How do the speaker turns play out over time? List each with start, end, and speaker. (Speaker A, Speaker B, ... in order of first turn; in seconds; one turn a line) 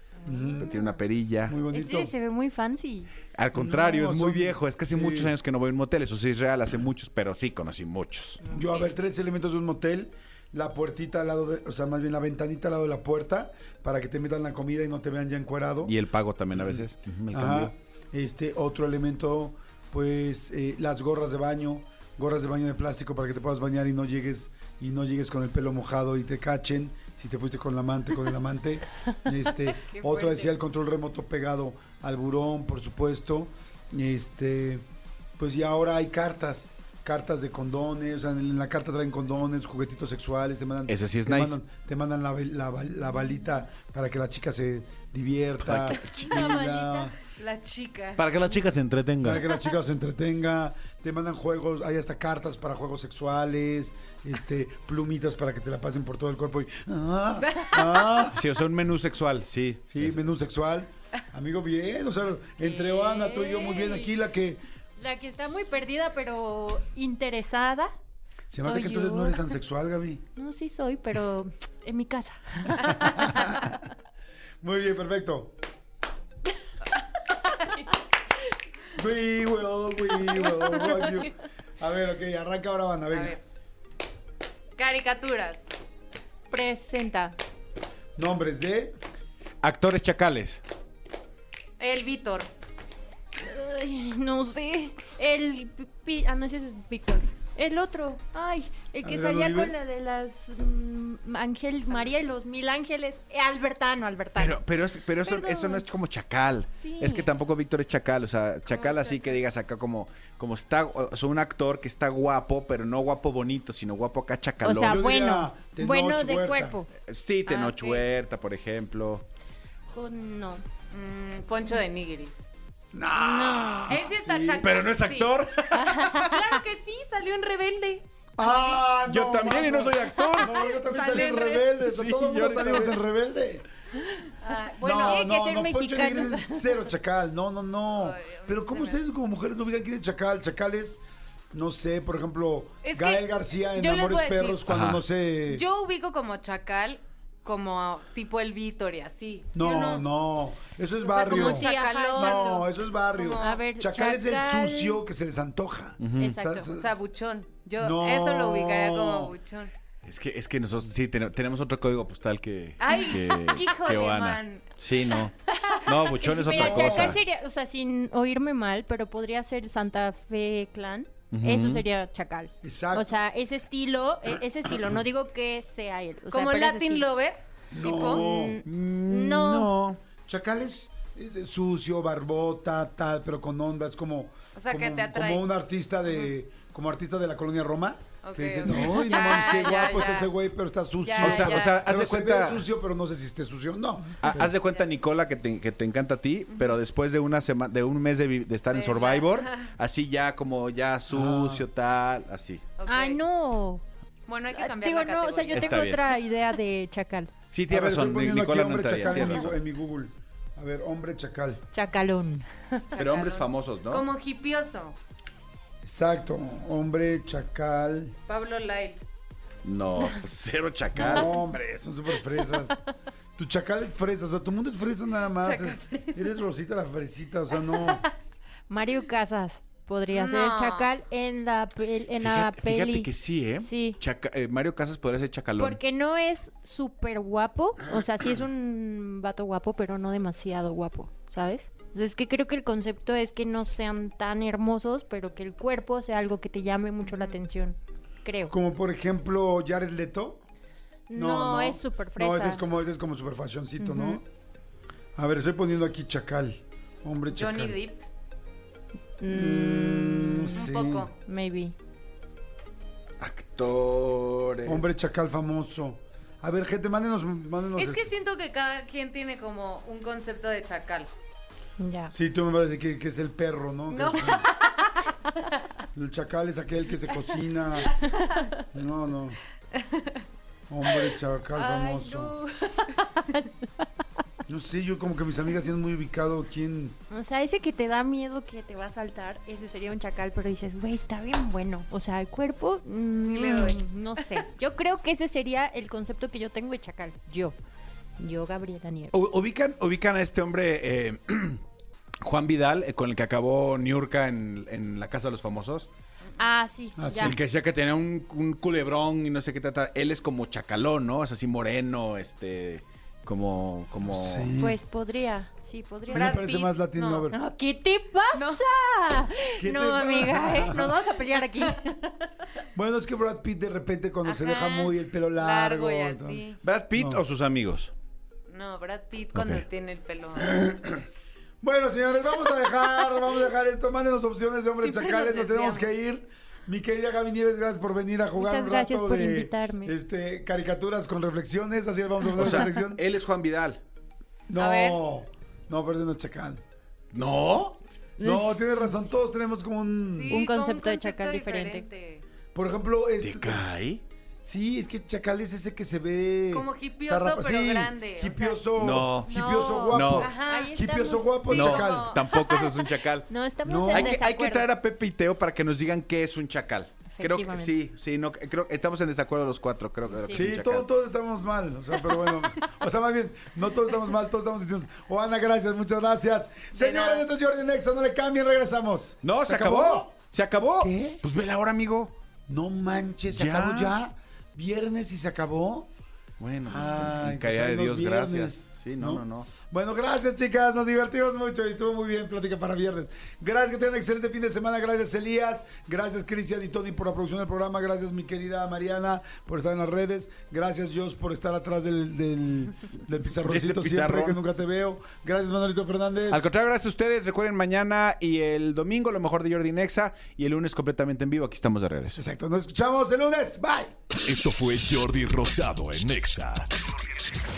Speaker A: 0.2-0.6
Speaker B: 0.2-0.8
Speaker C: 0.3-0.8
Speaker D: 0.6-1.6
Speaker B: 1.4-2.1
Speaker C: 1.7-3.1
Speaker D: 3.4-8.4
Speaker B: 3.5-5.4
Speaker B: 8.4-15.9
Speaker A: 8.5-8.9
Speaker D: 15.8-17.7
Speaker B: 16.6-34.9
Speaker C: 29.9-30.5
Speaker B: 35.4-47.1
Speaker D: 40.9-41.6
Speaker D: 45.6-46.5
Speaker C: 45.9-47.1
Speaker A: 47.4-48.3
Speaker D: 48.2-49.5
Speaker B: 49.2-58.4
Speaker A: 57.5-58.2
Speaker D: 58.3-60.2
Speaker B: 59.9-64.6
Speaker C: 63.0-64.1
Speaker C: 65.0-67.9
Speaker B: 68.5-70.2
Speaker C: 68.6-69.5
Speaker C: 70.4-73.2
Speaker B: 73.0-73.8
Speaker B: 74.6-75.5
Speaker B: 78.9-83.4
Speaker A: 83.1-83.4
Speaker A: 84.8-85.6
Speaker C: 86.5-87.4
Speaker B: 88.2-88.9
Speaker D: 89.6-90.6
Speaker A: 91.8-92.5
Speaker C: 93.4-104.6
Speaker B: 99.0-99.8
Speaker D: 104.3-115.0
Speaker C: 105.2-105.9
Speaker C: 106.8-107.3
Speaker C: 108.7-109.4
Speaker C: 114.6-116.9
Speaker B: 114.8-116.8
Speaker D: 117.0-119.2
Speaker A: 117.5-118.0
Speaker C: 119.9-120.6
Speaker A: 120.9-122.5
Speaker B: 122.9-124.7
Speaker C: 123.2-124.0
Speaker A: 123.9-125.4
Speaker D: 124.6-126.3
Speaker C: 125.7-126.3
Speaker A: 126.2-128.0
Speaker B: 128.4-133.6
Speaker D: 129.1-130.5
Speaker A: 130.4-131.7
Speaker D: 131.7-133.0
Speaker A: 134.4-135.3
Speaker B: 134.8-145.7
Speaker C: 134.9-136.8
Speaker A: 137.9-139.0
Speaker A: 142.8-144.6
Speaker D: 144.7-145.0
Speaker A: 145.5-150.0
Speaker B: 149.5-157.0
Speaker A: 151.1-152.6
Speaker C: 151.1-152.7
Speaker A: 153.2-153.6
Speaker C: 153.4-155.0
Speaker D: 156.0-156.3
Speaker C: 156.2-156.7
Speaker A: 156.8-159.7
Speaker B: 157.8-159.3
Speaker D: 160.0-165.3
Speaker A: 162.8-164.7
Speaker A: 165.5-167.1
Speaker D: 165.8-167.2
Speaker C: 166.2-177.1
Speaker D: 171.3-171.8
Speaker B: 172.6-173.2
Speaker A: 176.3-178.2
Speaker B: 177.7-178.6
Speaker C: 177.9-179.8
Speaker D: 178.6-180.0
Speaker B: 180.2-194.5
Speaker A: 184.5-185.5
Speaker A: 188.2-190.3
Speaker A: 191.0-191.8
Speaker D: 191.2-192.7
Speaker D: 194.2-202.6
Speaker A: 196.5-196.8
Speaker A: 198.7-199.7
Speaker B: 201.1-201.7
Speaker A: 202.8-203.2
Speaker C: 202.9-203.8
Speaker A: 204.2-205.9
Speaker C: 204.5-207.3
Speaker D: 205.5-206.0
Speaker D: 207.5-209.6
Speaker B: 207.7-211.6
Speaker C: 211.7-212.9
Speaker A: 212.9-215.0
Speaker D: 213.0-214.0
Speaker B: 215.8-218.1
Speaker A: 218.3-219.0
Speaker D: 219.6-221.3
Speaker B: 220.9-222.8
Speaker B: 223.4-228.0
Speaker A: 225.4-226.4
Speaker A: 227.7-228.1
Speaker C: 228.7-234.0
Speaker A: 230.1-230.9
Speaker D: 232.2-235.8
Speaker C: 235.6-248.5
Speaker B: 248.5-250.4
Speaker C: 251.1-252.7
Speaker B: 251.1-254.2
Speaker C: 253.8-254.2
Speaker B: 255.2-257.8
Speaker A: 257.3-258.0
Speaker C: 259.2-260.7
Speaker B: 259.3-261.1
Speaker A: 260.5-261.1
Speaker C: 261.2-261.8
Speaker D: 263.2-264.9
Speaker B: 264.6-268.1
Speaker A: 267.8-271.1
Speaker C: 271.8-272.1
Speaker B: 272.1-274.5
Speaker A: 273.9-274.8
Speaker B: 275.9-278.0
Speaker B: 278.7-279.4
Speaker A: 279.9-280.2
Speaker B: 280.7-282.4
Speaker C: 281.5-283.5
Speaker B: 284.5-287.0
Speaker C: 287.1-297.6
Speaker A: 293.3-294.2
Speaker C: 298.2-299.2
Speaker D: 299.1-301.6
Speaker D: 302.2-305.9
Speaker C: 306.4-307.4
Speaker B: 307.0-307.4
Speaker D: 307.2-314.6
Speaker B: 314.0-314.8
Speaker C: 314.6-316.3
Speaker B: 316.1-317.4
Speaker A: 316.1-317.3
Speaker C: 317.3-322.1
Speaker A: 318.3-318.6
Speaker B: 319.6-321.0
Speaker B: 322.7-327.2
Speaker A: 324.2-326.6
Speaker D: 326.6-327.9
Speaker A: 328.5-330.6
Speaker D: 329.3-329.6
Speaker B: 330.5-331.0
Speaker B: 331.6-343.0
Speaker A: 334.8-335.9
Speaker C: 338.4-339.9
Speaker D: 342.3-343.8
Speaker B: 344.5-346.6
Speaker A: 344.6-345.0
Speaker D: 347.1-347.8
Speaker C: 348.2-349.1
Speaker B: 348.2-350.4
Speaker A: 350.1-352.2
Speaker C: 350.3-351.9
Speaker B: 352.5-353.6
Speaker D: 353.2-354.0
Speaker B: 354.4-362.2
Speaker A: 356.5-358.6
Speaker D: 358.8-359.3
Speaker C: 359.2-361.6
Speaker D: 359.9-360.3
Speaker A: 360.2-360.8
Speaker A: 361.5-362.5
Speaker D: 361.5-363.3
Speaker C: 362.2-364.7
Speaker B: 363.6-364.2
Speaker D: 363.9-370.9
Speaker C: 367.1-367.8
Speaker C: 370.1-370.5
Speaker B: 370.3-380.1
Speaker A: 376.7-377.2
Speaker D: 379.2-382.1
Speaker B: 380.8-381.2
Speaker B: 382.5-385.9
Speaker D: 383.3-383.9
Speaker D: 386.4-389.5
Speaker B: 386.6-406.5
Speaker D: 403.4-404.4
Speaker D: 406.3-412.2
Speaker B: 412.1-413.9
Speaker E: 414.2-416.7